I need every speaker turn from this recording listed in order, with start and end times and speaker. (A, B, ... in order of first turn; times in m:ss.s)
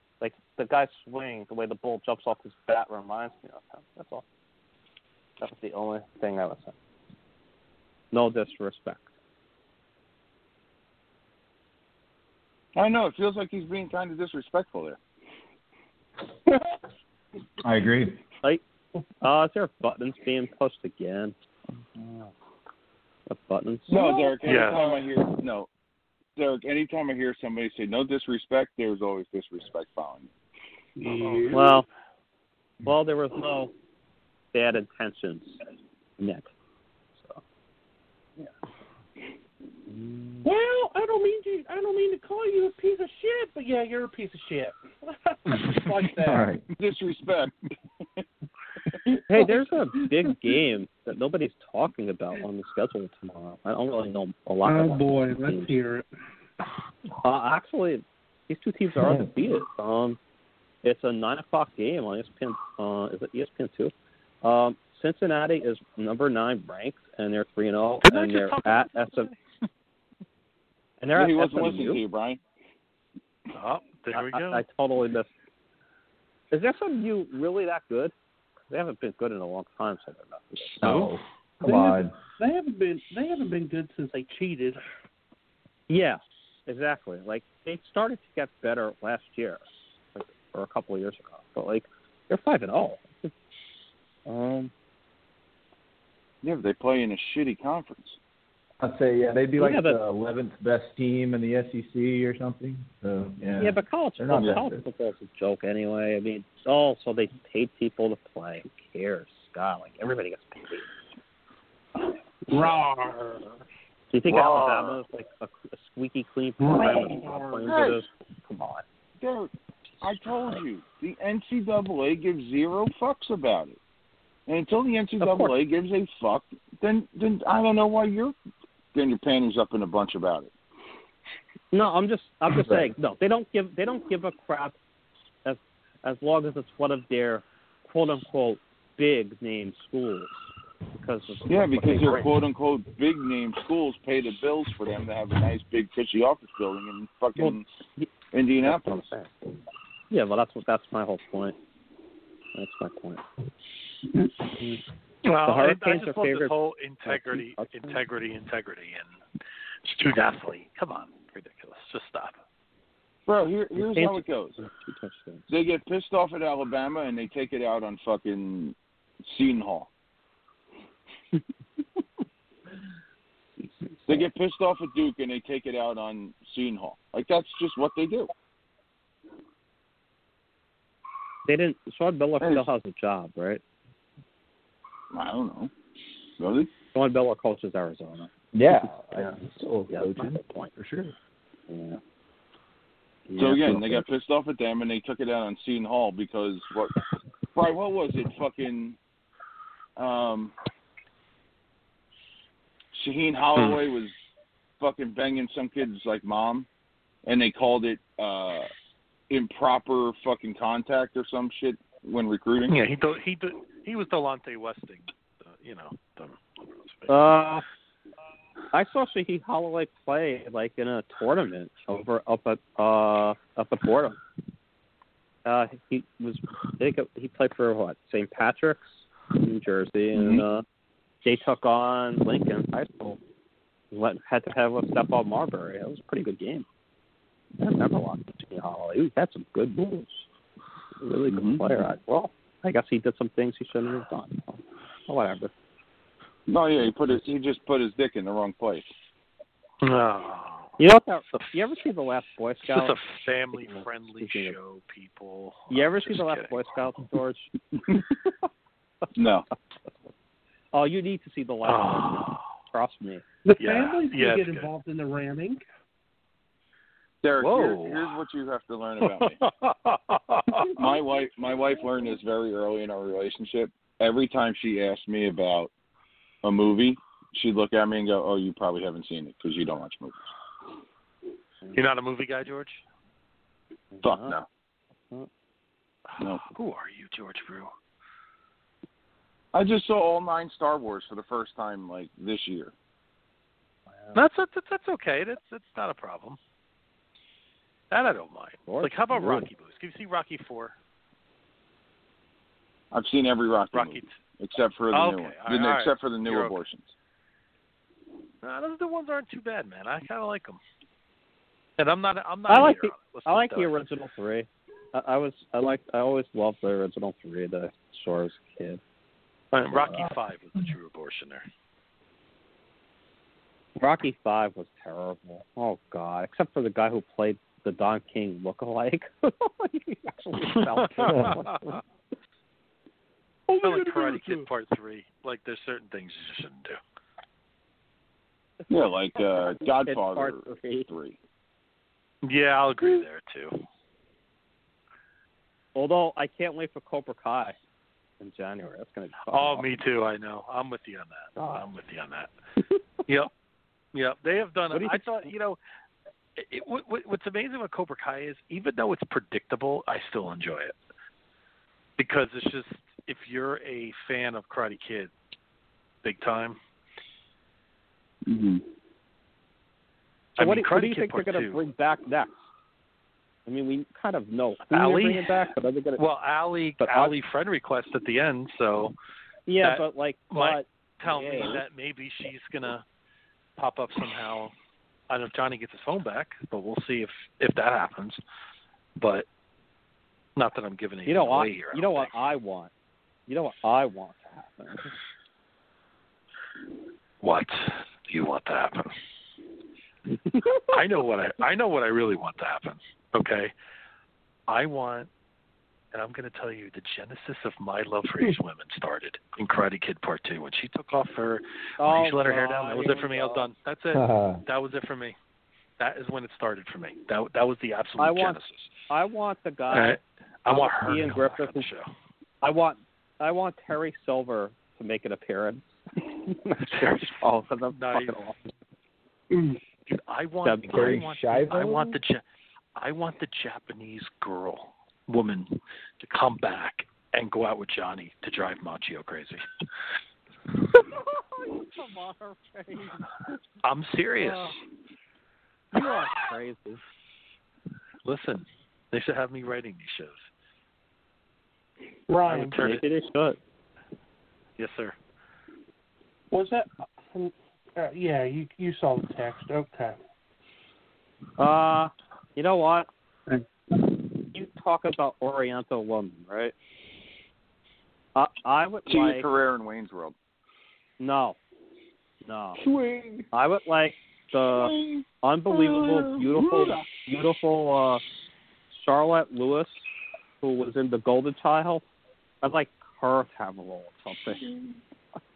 0:00.2-0:04.2 A
0:05.4-0:06.7 A
0:08.1-0:09.1 A
0:12.7-0:15.0 B
0:17.6-0:18.2 C
0:19.2-0:21.3 A
0:23.3-0:24.2 A
0:23.9-0:25.7 B
0:24.2-0:24.9 D
0:24.4-0:24.8 E
0:26.4-0:30.3 B
0:31.0-0:31.8 D
0:31.2-0:31.5 E
0:31.5-0:31.8 A
0:32.8-0:33.7 A
0:34.5-0:35.6 A
0:36.2-0:36.5 A
0:39.9-0:40.5 A
0:40.4-0:46.5 D
0:46.2-0:46.7 C
0:46.8-0:47.5 B
0:49.1-0:50.0 D
0:49.3-0:55.7 A
0:54.6-0:56.0 D
0:57.2-1:00.2 A
0:59.0-0:59.5 C
1:00.8-1:09.3 A
1:08.0-1:09.4 E
1:11.0-1:12.0 A
1:11.1-1:12.4 B
1:13.5-1:14.6 E
1:14.1-1:15.3 A
1:16.5-1:18.1 A
1:18.7-1:21.1 A
1:20.8-1:22.2 C
1:21.6-1:24.8 D
1:25.9-1:29.6 A
1:30.1-1:33.3 A
1:34.2-1:34.7 A
1:36.4-1:38.2 B
1:38.8-1:44.8 C
1:39.6-1:40.0 A
1:43.6-1:50.9 A
1:44.3-1:44.6 B
1:52.5-1:53.5 D
1:54.1-1:58.8 A
1:54.3-1:54.9 B
1:56.6-1:57.8 D
1:57.6-1:58.0 B
1:59.2-2:03.8 B
2:04.5-2:08.3 B
2:05.2-2:05.5 A
2:08.9-2:10.5 B
2:11.7-2:14.7 A
2:12.5-2:12.9 C
2:15.4-2:20.3 A
2:20.9-2:22.3 A
2:21.4-2:27.6 B
2:27.4-2:29.3 A
2:28.3-2:28.9 B
2:30.1-2:31.6 A
2:32.5-2:33.2 A
2:35.2-2:39.1 E
2:35.4-2:36.5 A
2:37.0-2:38.0 A
2:39.8-2:42.4 E
2:43.3-2:44.6 B
2:43.8-2:45.4 A
2:45.5-2:49.9 B
2:53.6-2:54.3 A
2:54.0-2:58.3 B
3:01.4-3:03.6 A
3:02.4-3:02.7 B
3:05.1-3:05.7 B
3:06.4-3:06.7 B
3:06.9-3:08.3 A
3:08.5-3:11.1 C
3:09.2-3:10.7 A
3:11.7-3:12.0 A
3:13.3-3:14.0 A
3:13.4-3:16.9 B
3:17.5-3:19.0 B
3:20.0-3:20.5 B
3:22.9-3:24.1 B
3:23.6-3:23.8 E
3:24.8-3:26.7 B
3:27.2-3:28.7 B
3:29.3-3:32.8 B
3:32.7-3:37.3 E
3:37.1-3:37.6 A
3:38.7-3:44.2 A
3:45.4-3:50.6 A
3:50.1-3:50.4 B
3:51.2-3:53.2 A
3:53.9-3:56.6 A
3:57.6-4:00.2 A
4:01.0-4:05.5 A
4:01.3-4:01.7 B
4:06.5-4:08.9 B
4:09.8-4:10.8 E
4:10.8-4:13.0 A
4:12.7-4:16.6 E
4:13.5-4:14.6 A
4:15.7-4:17.9 A
4:19.1-4:19.4 B
4:20.7-4:23.2 A
4:21.6-4:22.4 E
4:23.4-4:25.6 D
4:23.6-4:24.7 E
4:27.2-4:29.4 B
4:27.4-4:28.2 E
4:29.0-4:30.7 E
4:30.8-4:35.7 B
4:36.4-4:40.3 B
4:41.7-4:42.8 E
4:43.9-4:44.3 A
4:44.0-4:44.4 B
4:46.2-4:47.7 E
4:46.2-4:46.4 B
4:49.5-4:52.7 B
4:54.1-4:56.4 E
4:57.9-5:00.7 E
4:58.7-4:59.4 A
5:02.9-5:06.9 B
5:03.7-5:04.1 E
5:04.9-5:06.6 E
5:08.4-5:10.6 E
5:11.8-5:13.7 E
5:12.5-5:18.8 A
5:19.5-5:21.4 E
5:19.7-5:20.1 A
5:23.8-5:31.8 A
5:30.8-5:31.3 E
5:33.5-5:34.4 D
5:33.6-5:36.8 E
5:38.7-5:41.2 B
5:38.8-5:40.9 A
5:42.2-5:43.6 E
5:45.7-5:47.6 A
5:48.2-5:49.8 A
5:49.3-5:52.3 E
5:51.4-5:51.6 A
5:53.9-5:55.6 E
5:54.7-5:55.3 A
5:56.4-6:00.7 E
6:02.0-6:05.1 E
6:06.0-6:06.6 E
6:08.2-6:08.6 B
6:10.4-6:11.6 E
6:10.4-6:12.4 A
6:13.4-6:16.0 A
6:14.7-6:15.4 E
6:16.0-6:18.9 E
6:16.8-6:17.1 A
6:19.5-6:21.6 A
6:19.6-6:22.8 E
6:23.6-6:24.5 E
6:25.1-6:28.2 E
6:29.0-6:29.2 E
6:30.4-6:32.1 E
6:31.0-6:32.7 A
6:33.3-6:34.9 A
6:37.2-6:38.9 E
6:40.3-6:40.6 A
6:40.7-6:43.5 E
6:44.5-6:45.1 E
6:45.9-6:55.2 E
6:51.8-6:53.4 A
6:53.9-6:54.4 C
6:55.8-6:58.7 E
6:58.0-6:58.4 A
6:58.9-7:01.7 A
6:59.7-7:01.9 E
7:02.4-7:08.4 A
7:06.7-7:07.2 E
7:07.7-7:08.2 E
7:09.9-7:12.2 E
7:10.4-7:11.0 A
7:10.7-7:11.9 C
7:12.8-7:19.4 E
7:20.8-7:23.1 A
7:23.6-7:24.6 E
7:24.2-7:24.6 A
7:25.7-7:26.8 A
7:25.8-7:26.2 E
7:28.0-7:30.3 E
7:32.1-7:32.6 D
7:32.3-7:32.9 E
7:32.3-7:33.4 A
7:34.6-7:34.9 E
7:36.3-7:40.0 D
7:41.4-7:42.9 A
7:44.3-7:46.5 A
7:48.1-7:49.3 A
7:48.8-7:50.1 B
7:51.0-7:51.4 A
7:52.2-7:52.6 A
7:52.6-7:53.2 B
7:53.3-7:58.0 A
7:54.5-7:56.8 B
7:58.7-7:59.8 A
8:00.4-8:01.8 A
8:02.4-8:04.4 A